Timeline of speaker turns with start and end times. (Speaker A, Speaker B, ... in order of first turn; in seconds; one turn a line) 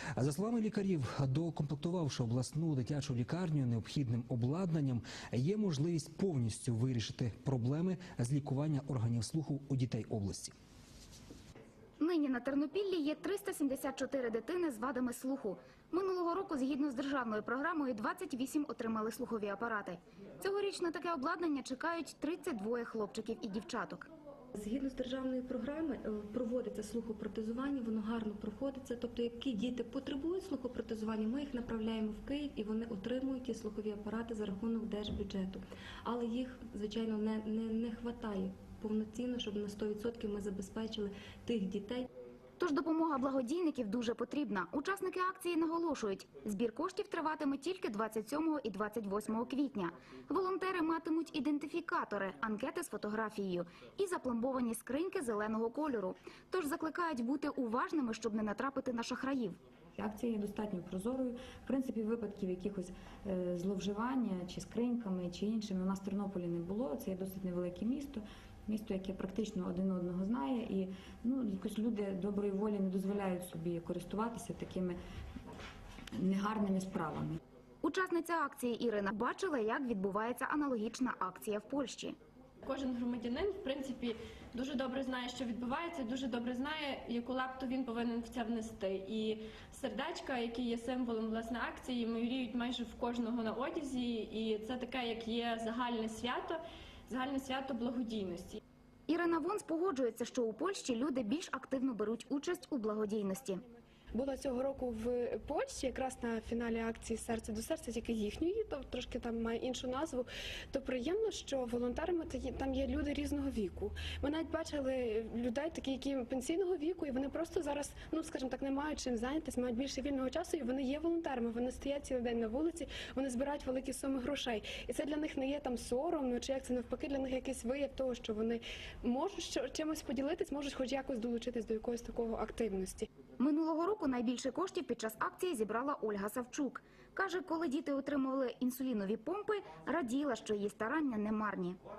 Speaker A: 0.1-10.5
Speaker B: 12.0-24.1
Speaker C: 24.5-42.1
Speaker B: 42.6-59.6
Speaker D: 60.0-75.0
Speaker D: 76.2-77.4
Speaker B: 77.8-82.1
Speaker E: 82.7-98.6
Speaker B: 99.1-103.6
Speaker F: 104.1-133.1
Speaker B: 133.4-141.8